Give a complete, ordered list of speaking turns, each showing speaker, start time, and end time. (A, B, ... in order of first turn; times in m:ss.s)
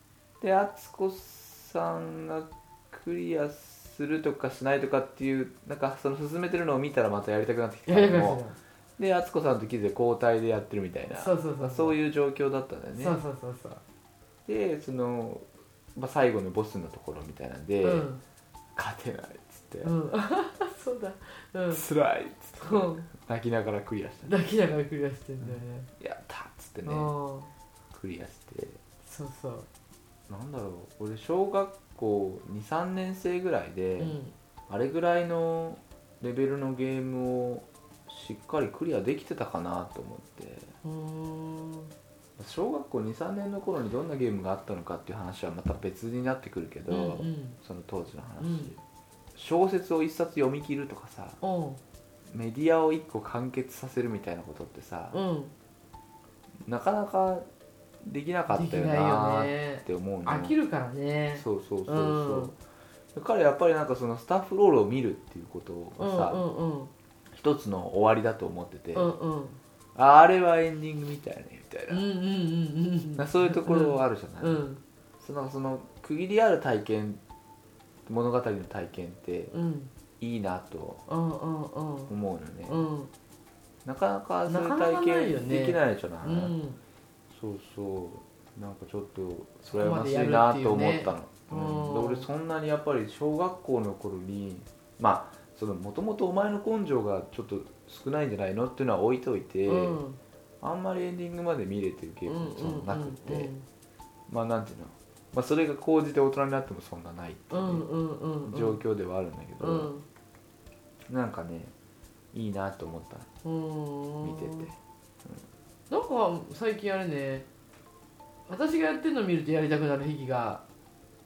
0:00.4-0:08.4 A
0:07.9-0:08.6 B
0:09.0-0:13.2 A
0:11.1-0:12.0 B
0:13.0-0:13.8 B
0:14.5-0:18.1 A
0:17.8-0:18.2 B
0:18.8-0:19.9 A
0:19.8-0:21.8 B
0:21.7-0:24.3 A
0:22.6-0:23.1 B
0:24.3-0:25.9 B
0:25.4-0:27.1 A
0:26.8-0:27.5 B
0:27.9-0:28.8 A
0:29.0-0:29.7 B
0:30.3-0:34.2 A
0:34.0-0:34.3 B
0:34.7-0:40.7 A
0:40.8-0:41.9 B
0:42.4-0:48.8 A
0:46.9-0:47.6 B
0:48.4-0:48.7 B
0:49.4-0:51.4 A
0:51.4-0:51.8 B
0:52.3-0:55.2 A
0:55.1-0:55.5 B
0:56.6-0:57.5 A
0:58.0-1:00.6 A
0:58.5-1:02.6 B
1:01.4-1:02.6 A
1:03.1-1:06.4 A
1:06.0-1:06.9 B
1:07.3-1:09.1 A
1:09.0-1:09.6 B
1:10.0-1:12.0 A
1:11.9-1:14.8 B
1:13.2-1:14.6 A
1:15.2-1:17.2 A
1:18.1-1:19.5 A
1:19.5-1:19.9 B
1:20.2-1:21.0 A
1:21.1-1:22.1 B
1:22.1-1:22.8 A
1:22.7-1:23.1 B
1:23.8-1:26.6 A
1:24.5-1:26.8 B
1:27.3-1:40.0 A
1:29.7-1:32.3 B
1:39.7-1:40.2 B
1:40.6-1:43.5 A
1:42.3-1:43.6 B
1:44.3-1:47.9 A
1:47.5-1:48.8 B
1:48.5-1:49.9 A
1:49.6-1:50.0 B
1:51.1-1:51.7 A
1:52.3-1:53.3 A
1:53.4-1:54.7 B
1:54.2-1:55.4 A
1:55.9-1:57.5 B
1:58.5-2:00.6 B